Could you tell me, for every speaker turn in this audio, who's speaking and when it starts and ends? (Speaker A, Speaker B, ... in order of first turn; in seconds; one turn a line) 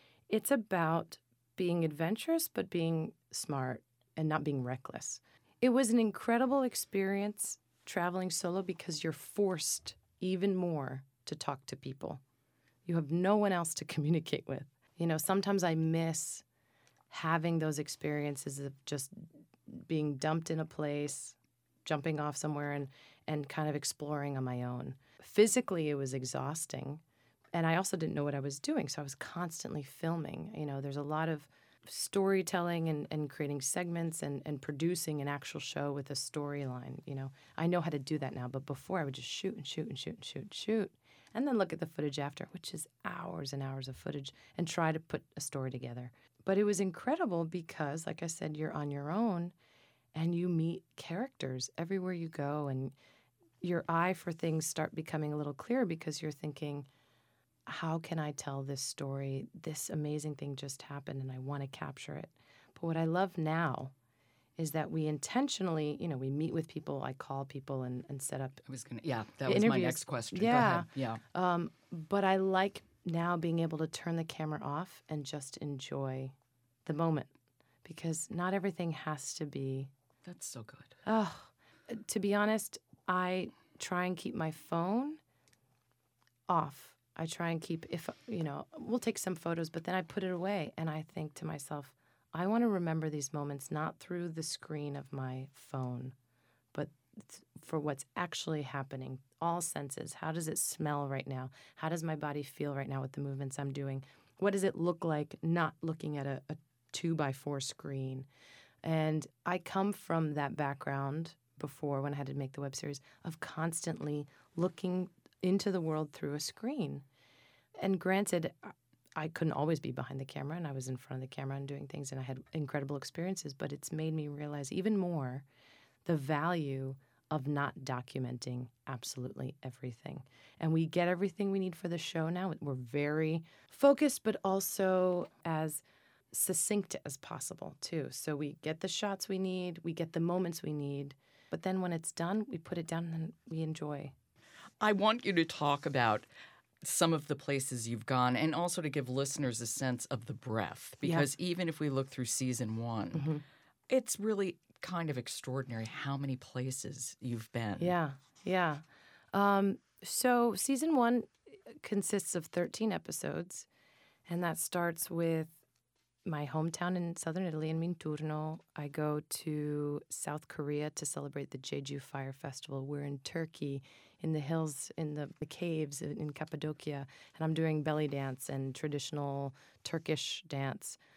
Speaker A: 0.3-12.2
Speaker A: 12.9-16.4
Speaker A: 17.1-27.0
Speaker A: 27.6-49.5
Speaker A: 50.1-53.0
Speaker A: 53.6-56.9
Speaker A: 57.7-63.9
Speaker A: 64.6-68.6
Speaker B: 68.7-71.2
Speaker A: 69.5-77.3
Speaker A: 77.8-79.9
Speaker B: 80.2-81.0
Speaker A: 81.0-85.2
Speaker A: 86.5-96.2
Speaker A: 96.7-108.3
Speaker A: 108.8-117.0
Speaker A: 117.8-125.5
Speaker A: 126.1-144.2
Speaker B: 144.8-146.3
Speaker B: 146.8-153.3
Speaker A: 153.1-153.4
Speaker B: 153.9-157.9
Speaker A: 157.8-163.7
Speaker A: 164.3-165.6
Speaker A: 166.3-181.0